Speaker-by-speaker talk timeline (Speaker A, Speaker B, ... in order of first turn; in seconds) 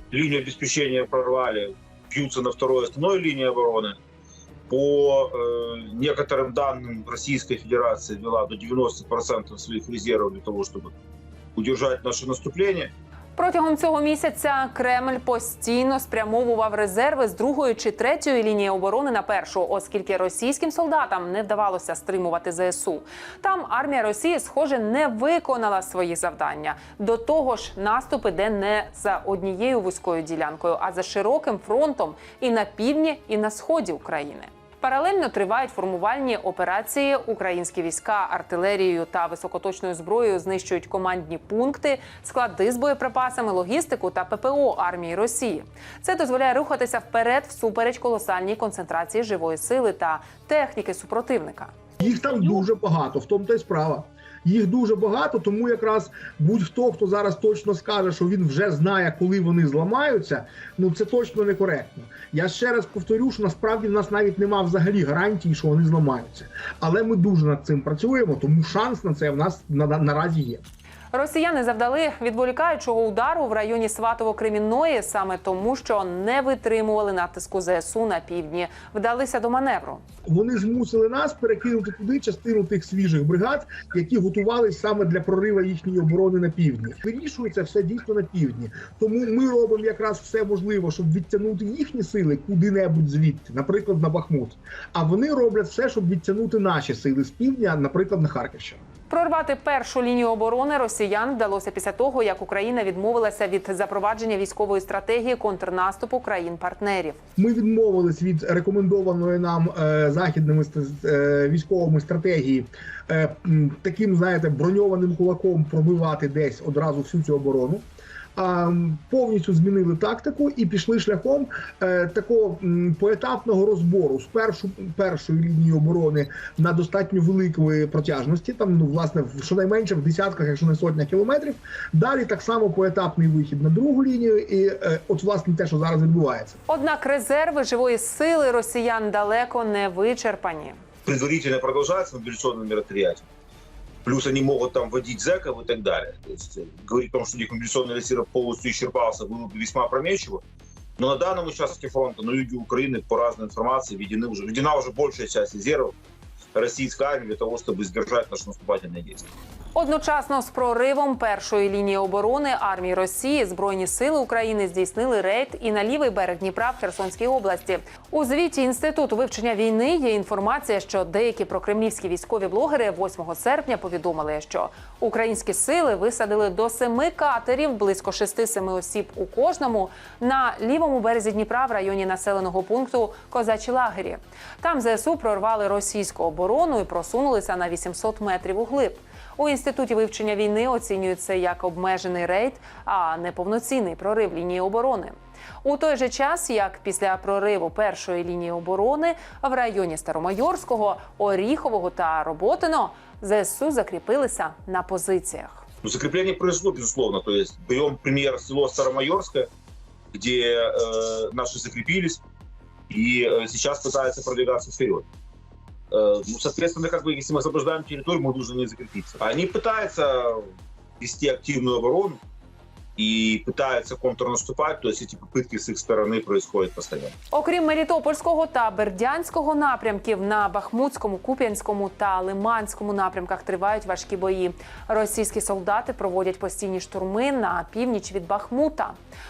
Speaker A: 0.1-4.0, 4.7-10.9, 11.6-12.9, 141.0-143.2, 144.0-150.4, 151.0-155.9, 156.5-159.3, 205.8-209.5, 210.1-212.2, 212.9-215.1, 215.9-220.5, 221.0-222.2, 223.0-227.1
Speaker B: 13.3-51.7, 71.1-80.0, 99.1-107.2, 136.7-140.8, 159.7-205.6, 227.3-238.9
Speaker C: 52.0-70.6, 80.2-98.8, 107.4-136.6